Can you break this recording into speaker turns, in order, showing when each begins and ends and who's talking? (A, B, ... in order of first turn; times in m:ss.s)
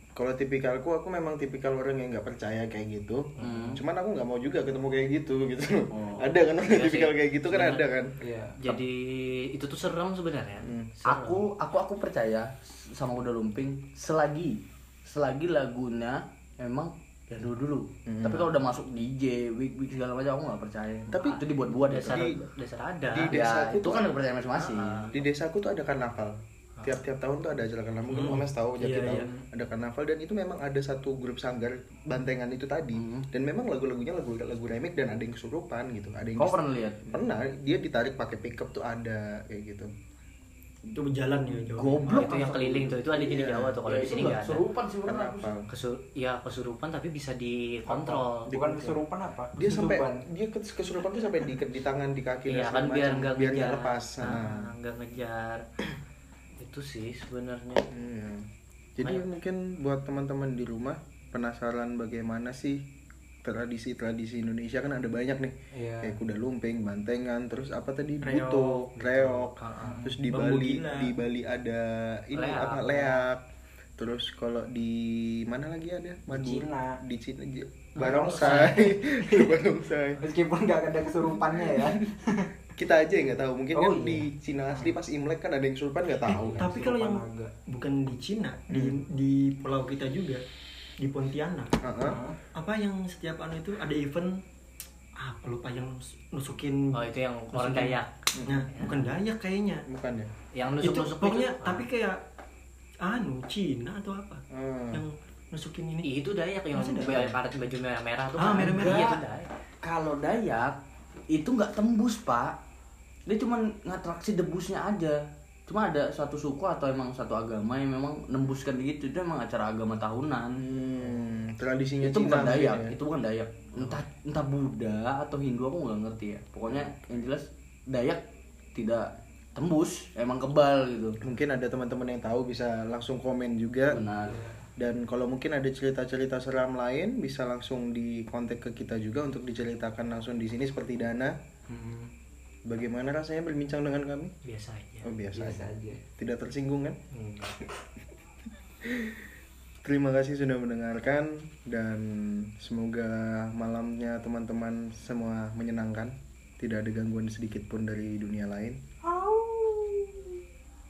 0:00.2-0:08.1 A
0:03.4-0:03.7 B
0:03.4-0:03.8 C
0:05.9-0:06.3 C
0:06.6-0:07.8 B
0:08.2-0:08.6 D
0:08.6-0:11.4 B
0:10.6-0:10.9 A
0:11.0-0:22.2 C
0:18.0-0:18.5 A
0:21.1-0:22.4 A
0:21.8-0:23.3 B
0:23.1-0:24.1 A
0:23.3-0:25.1 C
0:24.5-0:25.2 B
0:25.1-0:39.9 A
0:28.1-0:29.4 E
0:33.0-0:33.3 C
0:36.4-0:37.1 C
0:40.9-0:42.3 E
0:41.7-0:43.1 C
0:42.1-0:44.6 B
0:43.1-0:43.8 A
0:43.8-0:45.5 C
0:45.0-0:45.7 A
0:45.7-0:48.5 B
0:48.4-0:50.2 D
0:48.5-0:49.0 A
0:49.5-0:54.7 A
0:52.5-0:55.6 B
0:56.6-0:57.9 B
0:57.9-1:02.8 A
0:59.0-0:59.2 B
1:03.4-1:13.4 A
1:05.7-1:06.1 D
1:08.2-1:08.9 E
1:09.0-1:10.1 B
1:09.8-1:10.1 D
1:10.2-1:11.1 E
1:12.3-1:13.2 B
1:14.0-1:20.2 A
1:16.3-1:17.0 D
1:18.0-1:18.5 B
1:18.1-1:19.6 D
1:20.2-1:22.5 D
1:22.7-1:26.7 A
1:23.7-1:24.2 D
1:26.3-1:30.4 E
1:26.3-1:27.5 D
1:31.0-1:31.8 E
1:31.8-1:32.2 A
1:32.0-1:32.4 D
1:32.5-1:34.4 E
1:35.2-1:37.0 E
1:36.9-1:38.1 B
1:37.5-1:39.8 E
1:38.3-1:38.7 A
1:38.7-1:39.0 B
1:39.9-1:40.3 A
1:40.5-1:41.9 B
1:40.8-1:42.2 E
1:43.0-1:46.1 E
1:44.5-1:45.0 A
1:46.0-1:49.5 B
1:46.7-1:47.4 E
1:47.0-1:47.3 C
1:48.4-1:49.2 C
1:48.4-1:49.2 E
1:49.8-1:50.8 C
1:51.3-1:52.6 C
1:53.3-2:00.6 C
2:00.6-2:02.9 A
2:02.0-2:08.2 C
2:08.7-2:11.2 C
2:11.2-2:14.0 A
2:13.9-2:14.4 C
2:14.3-2:14.6 D
2:14.8-2:21.4 A
2:21.7-2:22.1 D
2:22.6-2:24.3 A
2:24.4-2:25.1 B
2:25.0-2:25.6 A
2:25.3-2:26.0 D
2:26.2-2:27.0 A
2:27.1-2:27.5 B
2:28.8-2:29.2 A
2:29.8-2:38.8 A
2:39.0-2:40.3 D